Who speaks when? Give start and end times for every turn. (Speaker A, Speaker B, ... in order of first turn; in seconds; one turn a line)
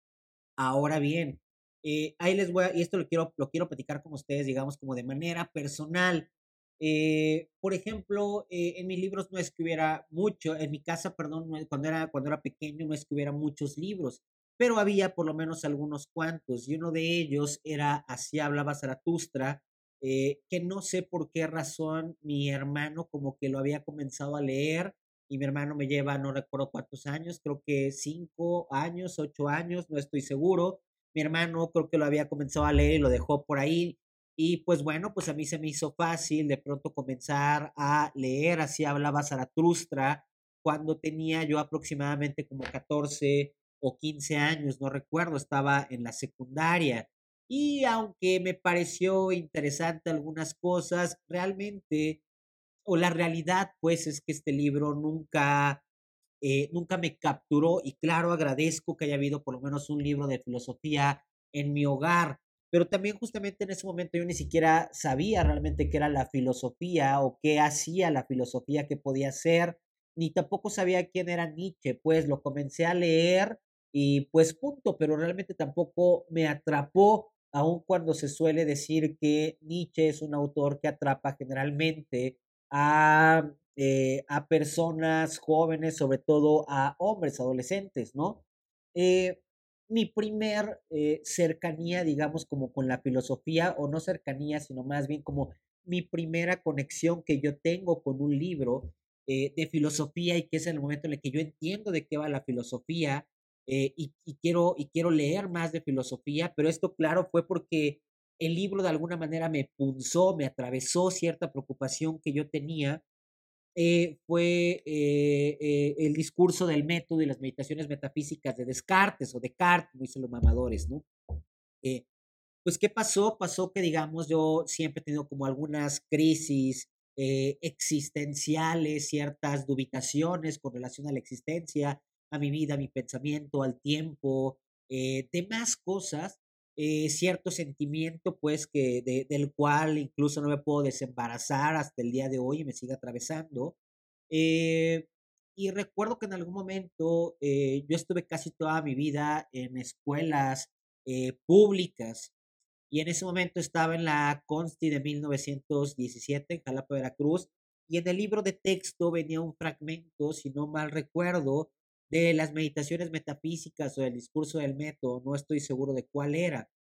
Speaker A: 0.6-52.2
Speaker A: 52.9-55.8
Speaker A: 56.4-88.4
Speaker A: 88.9-113.0
Speaker A: 113.8-121.0
Speaker A: 122.6-143.8
Speaker A: 144.3-152.3
Speaker A: 152.9-166.7